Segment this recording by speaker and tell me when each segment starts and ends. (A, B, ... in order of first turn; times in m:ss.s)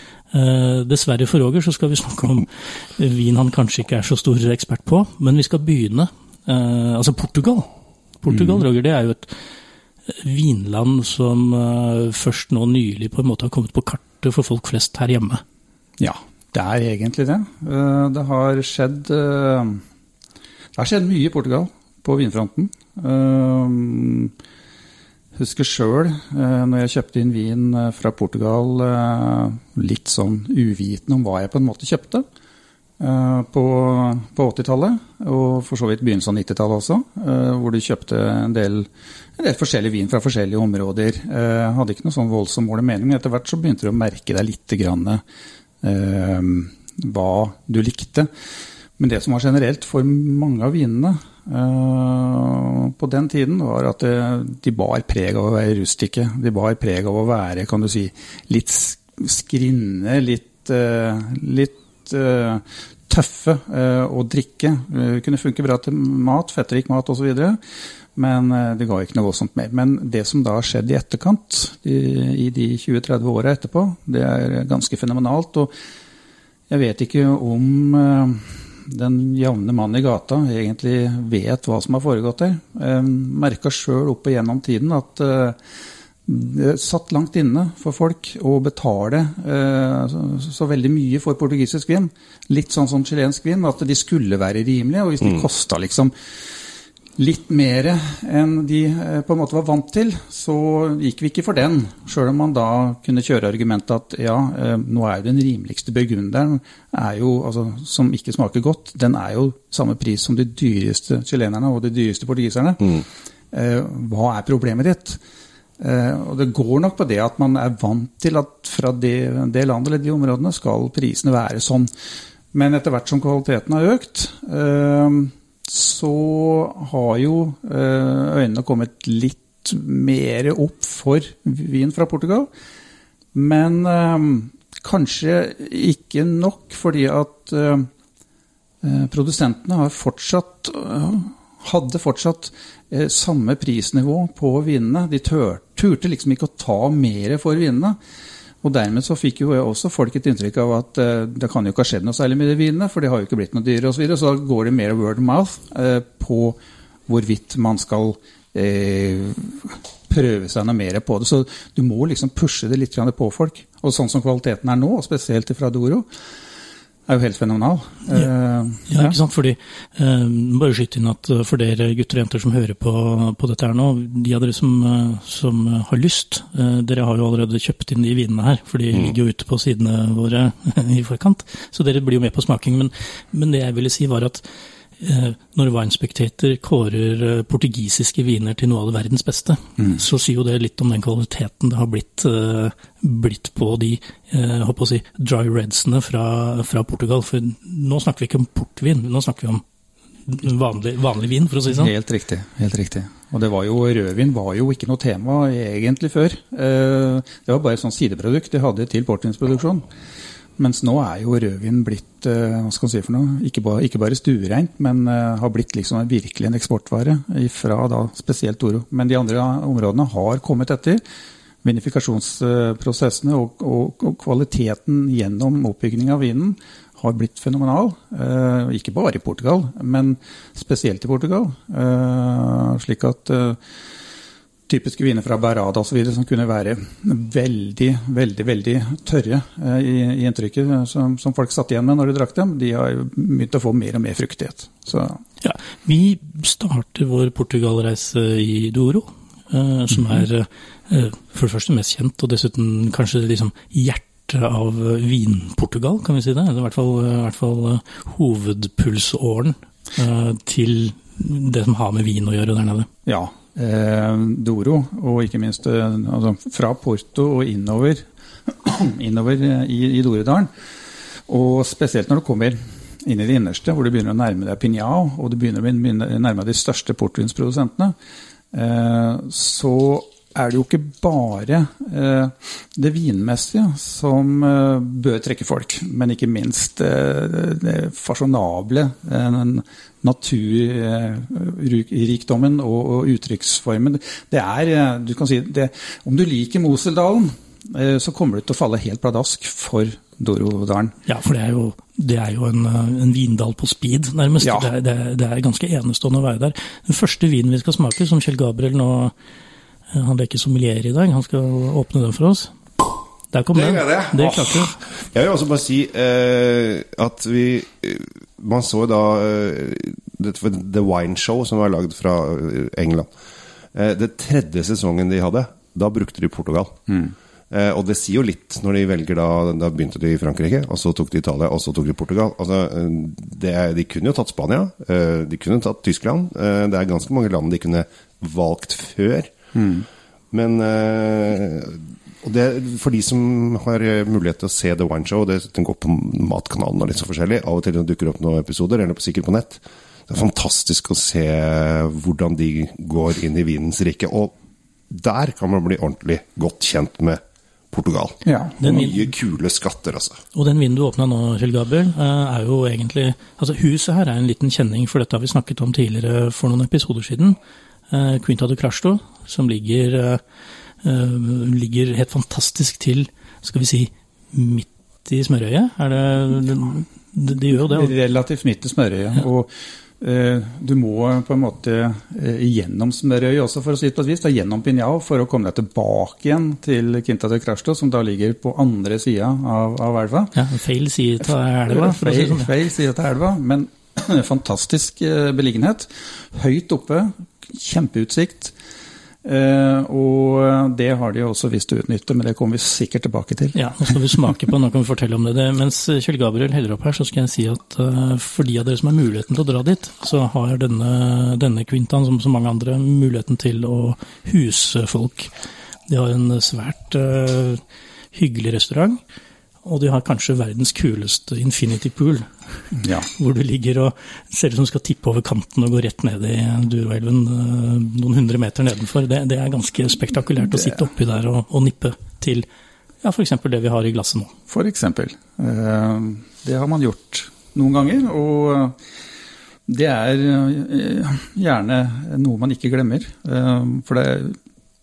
0:00.3-0:07.7 A
0:08.2-0:09.4 A
0:08.3-0:08.6 B
0:10.1-0:15.4 A
0:16.0-0:19.8 B
0:20.8-0:24.3 B
0:25.4-0:32.3 B
0:33.0-0:45.2 B
0:45.8-0:48.3 B
0:49.0-1:07.6 B
1:08.2-1:15.7 B
1:16.7-1:25.6 B
1:26.3-1:36.1 B
1:37.2-1:55.2 B
1:55.8-2:01.9 B
2:02.5-2:12.5 B
2:13.3-2:17.9 B
2:18.8-2:28.0 B
2:28.6-2:46.1 B
2:47.1-2:49.2 B
2:48.9-3:04.4 A
3:05.0-3:19.6 A
3:20.3-3:21.9 A
3:21.7-3:29.8 B
3:30.6-3:41.0 B
3:41.6-3:53.6 B
3:54.7-4:05.2 B
4:05.4-4:22.9 A
4:23.1-4:30.5 B
4:31.3-4:38.0 B
4:38.5-5:01.0 B
5:01.1-5:09.1 A
5:04.4-5:04.7 B
5:09.9-5:12.5 A
5:13.3-5:14.7 A
5:13.6-5:23.1 C
5:23.7-5:26.8 C
5:26.9-5:27.1 B
5:27.5-5:39.3 C
5:39.5-5:39.9 B
5:40.3-5:54.3 C
5:54.9-5:57.2 C
5:57.7-6:00.2 C
5:58.2-5:58.6 B
5:58.6-5:59.0 A
6:00.3-6:07.4 A
6:07.9-6:10.2 A
6:10.8-6:18.0 A
6:17.6-6:30.4 B
6:30.4-6:32.5 A
6:31.7-6:38.6 B
6:39.2-6:44.1 B
6:43.6-6:55.3 A
6:55.9-6:57.6 A
6:58.1-6:59.0 A
6:59.6-7:12.5 A
7:02.8-7:03.1 B
7:13.0-7:14.3 A
7:14.5-7:18.8 B
7:19.7-7:24.4 B